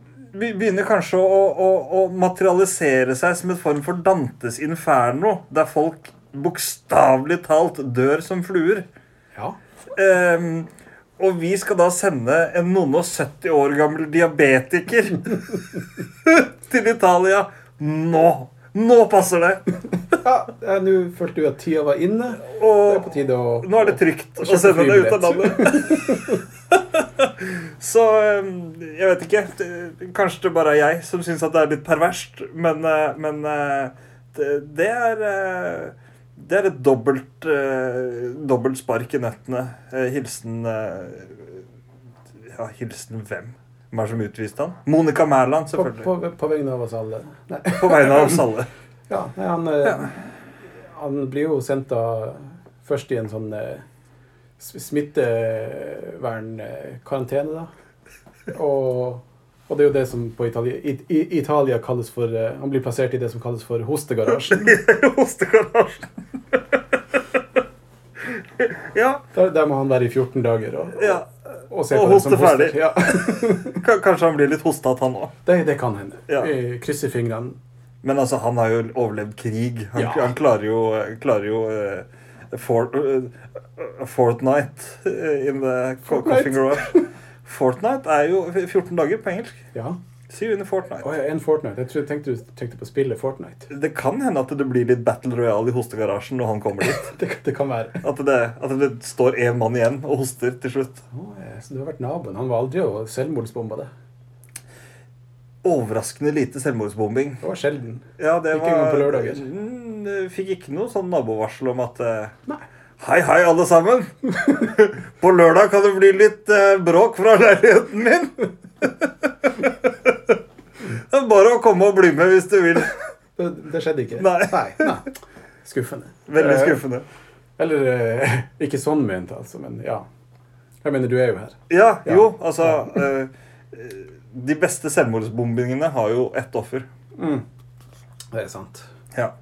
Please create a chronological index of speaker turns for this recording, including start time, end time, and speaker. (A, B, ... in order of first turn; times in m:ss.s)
0:00.3-0:08.9 A
0:09.9-0:19.6 A
0:20.2-0:26.4 B
0:22.4-0:41.6 A
0:42.5-0:46.1 A
0:45.7-0:48.5 B
0:47.7-0:48.7 A
0:49.1-0:50.2 B
0:50.8-0:53.8 B
0:54.6-0:57.7 B
0:58.5-1:04.8 B
1:04.3-1:07.4 A
1:08.2-1:09.2 A
1:09.3-1:13.8 B
1:11.0-1:11.3 A
1:11.9-1:15.3 A
1:15.4-1:17.6 B
1:18.0-1:29.6 A
1:20.0-1:20.3 B
1:26.1-1:27.1 B
1:30.3-1:31.0 A
1:31.0-1:33.7 B
1:33.7-1:37.1 A
1:36.8-1:38.0 B
1:38.0-1:41.0 A
1:41.1-1:43.9 B
1:45.6-1:47.4 A
1:47.4-1:49.5 B
1:48.2-1:52.4 A
1:53.0-2:02.9 A
2:03.4-2:06.8 B
2:04.2-2:04.9 A
2:06.3-2:07.0 A
2:07.6-2:10.0 B
2:10.8-2:13.0 B
2:11.7-2:16.9 A
2:17.2-2:17.4 B
2:18.3-2:18.8 B